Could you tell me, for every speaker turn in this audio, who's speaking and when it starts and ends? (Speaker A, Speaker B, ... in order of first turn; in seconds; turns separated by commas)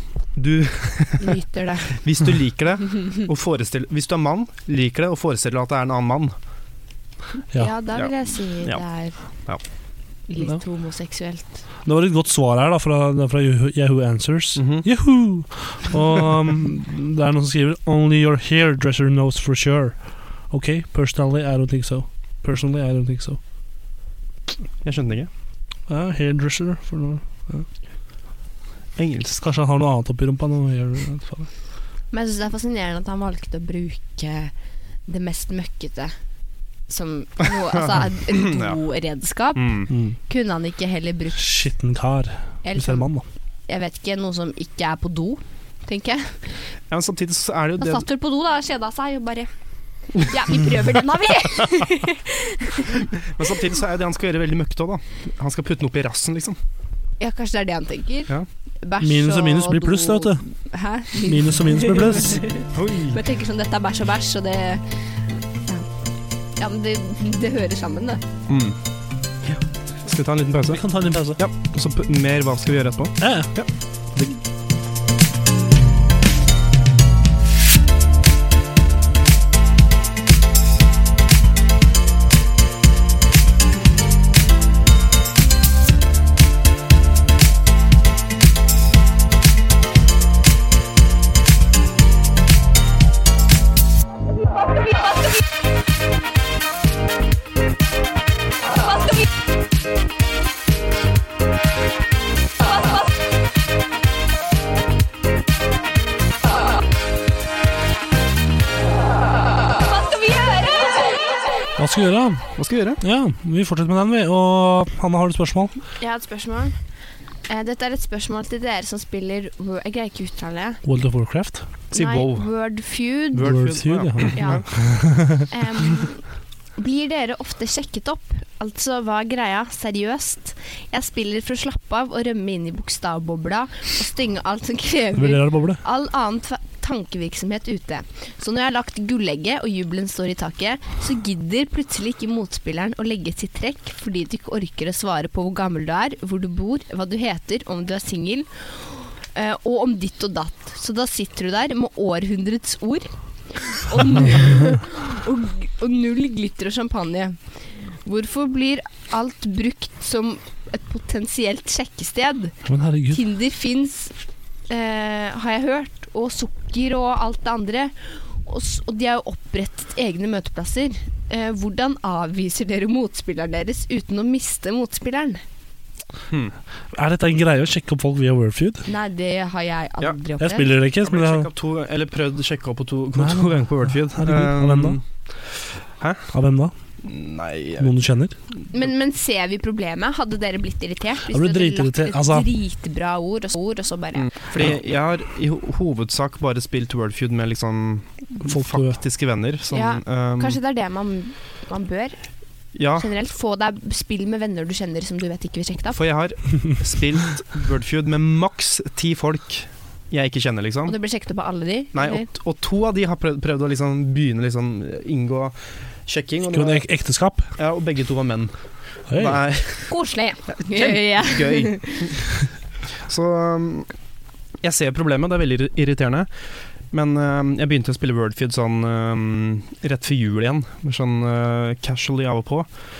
Speaker A: 0.4-1.4, Speaker B: 1.2-1.9, Speaker A: 1.9-6.3, Speaker B: 7.5-9.2, Speaker B: 10.3-11.6, Speaker C: 11.8-20.0, Speaker A: 14.6-14.9, Speaker C: 20.5-23.4, Speaker A: 24.8-25.3, Speaker C: 25.9-27.7, Speaker A: 29.0-29.4, Speaker C: 29.4-31.5, Speaker B: 32.1-34.5, Speaker B: 35.1-36.1, Speaker B: 36.9-41.7, Speaker A: 38.3-38.8, Speaker A: 39.5-39.9, Speaker C: 39.9-40.2, Speaker C: 41.4-43.2, Speaker B: 42.6-43.1, Speaker B: 43.7-46.6, Speaker A: 46.9-48.0, Speaker B: 47.8-49.5, Speaker B: 50.2-53.0, Speaker A: 53.2-56.6, Speaker B: 57.2-65.0, Speaker C: 59.0-60.4, Speaker C: 61.1-62.5, Speaker A: 62.7-63.2, Speaker B: 66.6-68.2, Speaker A: 68.5-68.8, Speaker A: 69.5-74.3, Speaker C: 70.7-71.4, Speaker C: 73.2-73.5, Speaker C: 111.8-115.7, Speaker A: 112.6-113.0, Speaker B: 116.0-116.8, Speaker B: 117.5-120.8, Speaker C: 120.8-121.7, Speaker B: 121.9-123.6, Speaker A: 121.9-122.5, Speaker A: 123.3-124.7, Speaker C: 123.4-125.5, Speaker B: 124.3-124.7, Speaker B: 125.3-157.4, Speaker C: 135.2-135.8, Speaker B: 158.0-164.1, Speaker C: 162.7-163.2, Speaker B: 164.7-175.4, Speaker C: 176.9-178.9, Speaker B: 178.8-180.7, Speaker C: 180.4-181.5, Speaker A: 181.0-186.3, Speaker C: 183.2-185.0, Speaker C: 186.3-186.7, Speaker A: 187.0-187.9, Speaker C: 187.8-188.4, Speaker B: 188.7-194.3, Speaker C: 191.3-192.5, Speaker A: 194.2-200.6, Speaker C: 198.4-199.0, Speaker B: 199.7-202.2, Speaker A: 202.8-203.1, Speaker B: 203.0-206.0, Speaker A: 205.9-211.0, Speaker B: 210.9-212.3, Speaker A: 211.9-216.8, Speaker C: 216.5-217.5, Speaker A: 217.6-218.5, Speaker A: 219.1-219.9, Speaker C: 219.1-219.4, Speaker B: 219.9-222.1, Speaker A: 220.7-222.3, Speaker A: 223.1-223.9, Speaker A: 224.6-226.3, Speaker A: 226.9-232.7